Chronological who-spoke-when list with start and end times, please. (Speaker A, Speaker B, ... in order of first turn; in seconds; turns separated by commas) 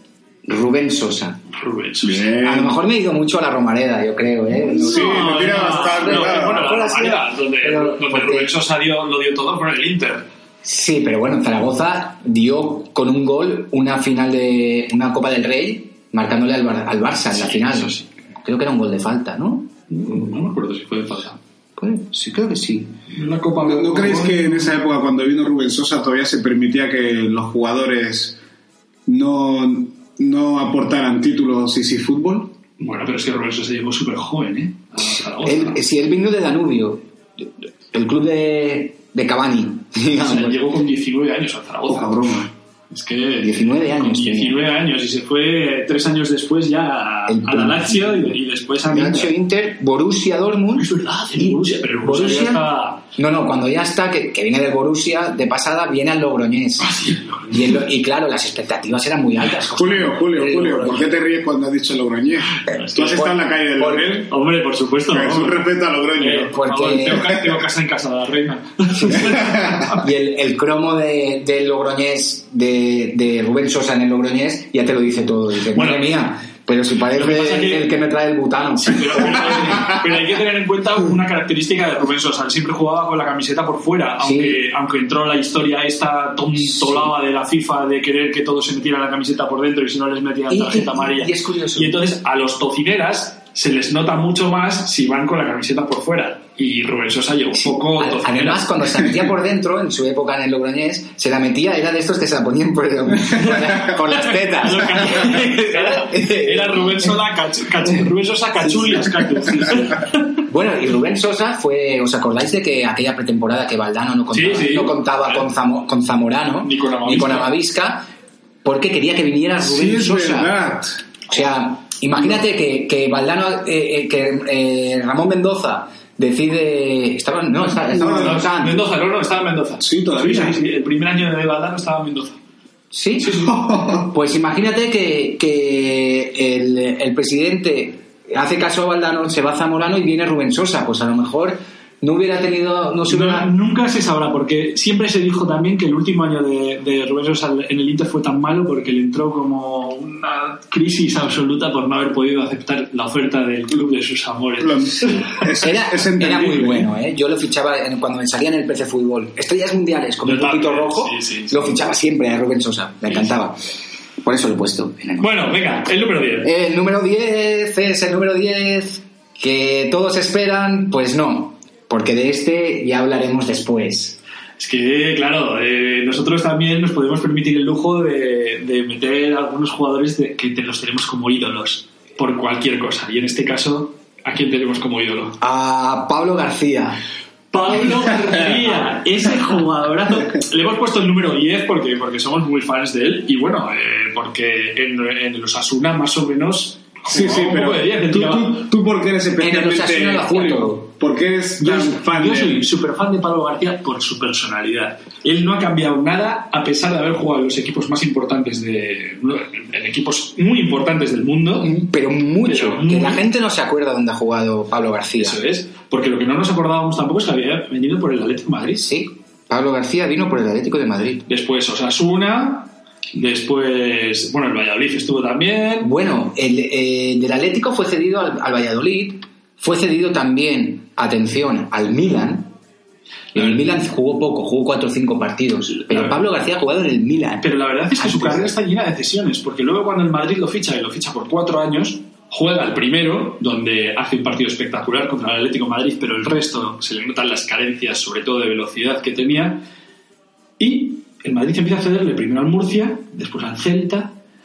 Speaker A: 0.5-1.4, Speaker B: 1.5-2.3, Speaker C: 2.0-2.8, Speaker A: 2.4-8.5, Speaker C: 4.6-6.7, Speaker B: 4.8-10.3, Speaker A: 10.6-19.7, Speaker B: 17.3-18.1, Speaker B: 19.9-21.4, Speaker A: 21.8-23.0, Speaker B: 23.1-24.8, Speaker C: 23.6-28.4, Speaker C: 29.1-32.5, Speaker B: 32.8-35.8, Speaker A: 35.4-40.6, Speaker B: 40.1-42.4, Speaker C: 41.9-42.5, Speaker B: 42.9-49.3, Speaker A: 43.4-44.6, Speaker A: 47.3-56.9, Speaker B: 50.8-53.0, Speaker B: 56.8-57.8, Speaker A: 57.5-61.1, Speaker C: 59.7-64.3, Speaker B: 62.6-63.2, Speaker A: 63.0-64.2, Speaker B: 64.3-65.6, Speaker C: 65.1-66.6, Speaker B: 66.2-70.1, Speaker A: 66.5-67.3, Speaker A: 69.0-69.3, Speaker C: 69.2-69.8, Speaker A: 70.0-80.0, Speaker B: 75.7-76.2, Speaker B: 77.1-77.9, Speaker B: 78.8-98.7, Speaker A: 84.2-84.6, Speaker A: 86.7-87.1, Speaker A: 90.5-92.0, Speaker A: 97.5-107.2, Speaker B: 103.4-110.3, Speaker A: 108.6-109.9, Speaker A: 110.5-118.1, Speaker B: 114.3-115.5, Speaker B: 116.6-117.6, Speaker A: 118.6-120.6, Speaker C: 119.6-121.0, Speaker A: 121.3-128.8, Speaker C: 127.9-128.4, Speaker B: 128.1-132.4, Speaker C: 129.8-130.6, Speaker A: 132.9-143.5, Speaker B: 133.2-133.6, Speaker C: 133.3-134.1, Speaker B: 143.1-155.4, Speaker C: 154.6-156.9, Speaker A: 155.6-163.6, Speaker B: 160.2-161.8, Speaker A: 164.2-165.3, Speaker B: 165.2-166.5, Speaker A: 166.4-174.2, Speaker B: 174.6-185.4, Speaker A: 185.4-187.0, Speaker B: 187.5-198.7, Speaker C: 197.1-202.7, Speaker A: 199.4-200.9, Speaker B: 201.6-211.7, Speaker A: 211.6-215.4, Speaker B: 212.4-213.3, Speaker B: 215.2-218.9, Speaker A: 218.8-221.3, Speaker B: 221.3-225.9, Speaker A: 225.8-232.5, Speaker A: 233.3-238.5, Speaker B: 235.7-236.2, Speaker B: 237.4-249.6, Speaker B: 250.6-254.2